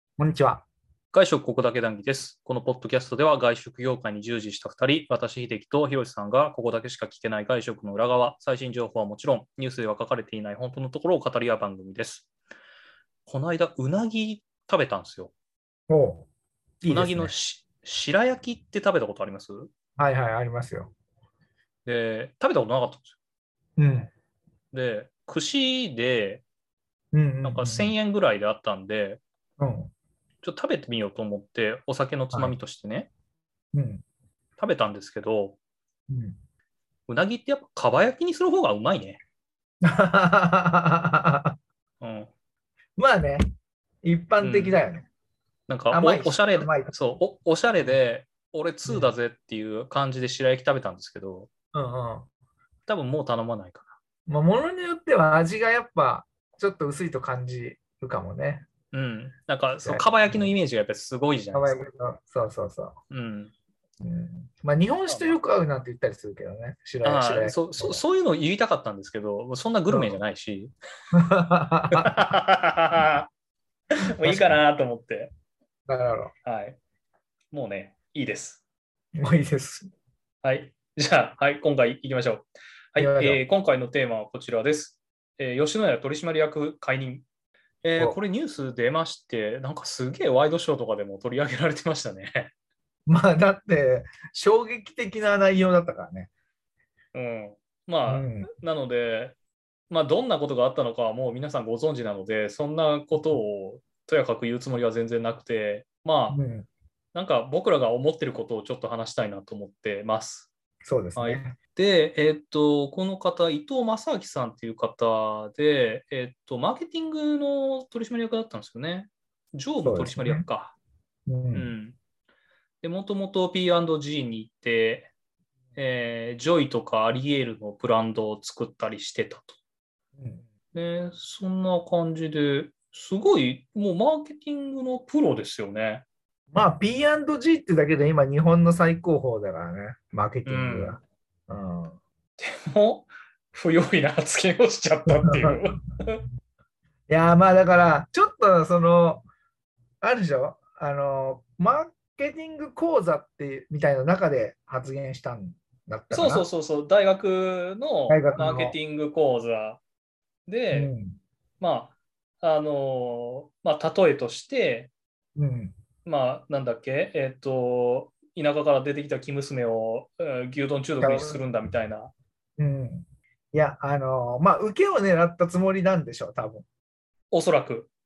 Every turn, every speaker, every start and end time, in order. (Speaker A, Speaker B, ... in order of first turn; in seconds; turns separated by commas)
Speaker A: 0.2-0.6, Speaker B: 1.1-12.3, Speaker B: 13.2-15.3, Speaker A: 15.9-16.3, Speaker A: 16.8-17.3, Speaker B: 16.9-19.7, Speaker A: 20.0-20.9, Speaker B: 21.8-23.1, Speaker A: 23.8-24.1, Speaker B: 24.7-26.4, Speaker A: 27.1-27.9, Speaker B: 27.4-29.2, Speaker A: 29.6-29.9, Speaker B: 30.4-33.1, Speaker A: 33.7-34.0, Speaker B: 34.6-35.6, Speaker A: 36.1-36.3, Speaker B: 37.1-39.2, Speaker A: 39.8-41.5, Speaker B: 42.0-42.3, Speaker A: 43.0-43.4, Speaker A: 44.0-45.1, Speaker B: 44.4-44.8, Speaker B: 45.7-51.5, Speaker A: 45.9-46.9, Speaker A: 48.9-49.1, Speaker A: 51.7-52.3, Speaker B: 52.9-53.9, Speaker A: 54.3-58.6, Speaker B: 58.9-61.8, Speaker A: 59.8-60.5, Speaker A: 61.5-63.0, Speaker B: 63.1-63.5, Speaker A: 64.0-68.0, Speaker B: 65.1-65.3, Speaker B: 67.0-70.7, Speaker A: 69.9-70.1, Speaker A: 71.2-72.1, Speaker B: 71.9-73.3, Speaker B: 74.1-75.3, Speaker A: 74.2-74.6, Speaker A: 75.9-76.3, Speaker B: 76.4-76.8, Speaker B: 77.5-78.6, Speaker A: 79.1-79.9, Speaker B: 80.4-87.2, Speaker A: 83.0-83.4, Speaker B: 87.8-92.5, Speaker A: 93.1-96.3, Speaker B: 97.1-99.3, Speaker A: 98.0-98.5, Speaker B: 99.9-106.4, Speaker A: 106.3-106.7, Speaker B: 107.1-110.5, Speaker A: 110.8-111.5, Speaker B: 111.2-120.8, Speaker A: 119.8-120.5, Speaker A: 121.3-121.7, Speaker B: 121.5-122.0, Speaker B: 122.8-125.1, Speaker B: 125.8-129.6, Speaker A: 130.2-130.4, Speaker B: 130.7-136.0, Speaker A: 136.5-142.0, Speaker B: 140.4-141.0, Speaker B: 142.4-146.2, Speaker A: 145.1-145.6, Speaker A: 147.1-149.2, Speaker A: 150.0-156.4, Speaker B: 156.1-159.8, Speaker A: 158.1-158.8, Speaker B: 160.5-160.9, Speaker A: 160.7-161.2, Speaker B: 161.6-164.9, Speaker A: 165.3-165.7, Speaker B: 166.0-172.1, Speaker A: 171.0-171.4, Speaker A: 172.6-176.6, Speaker B: 177.3-177.9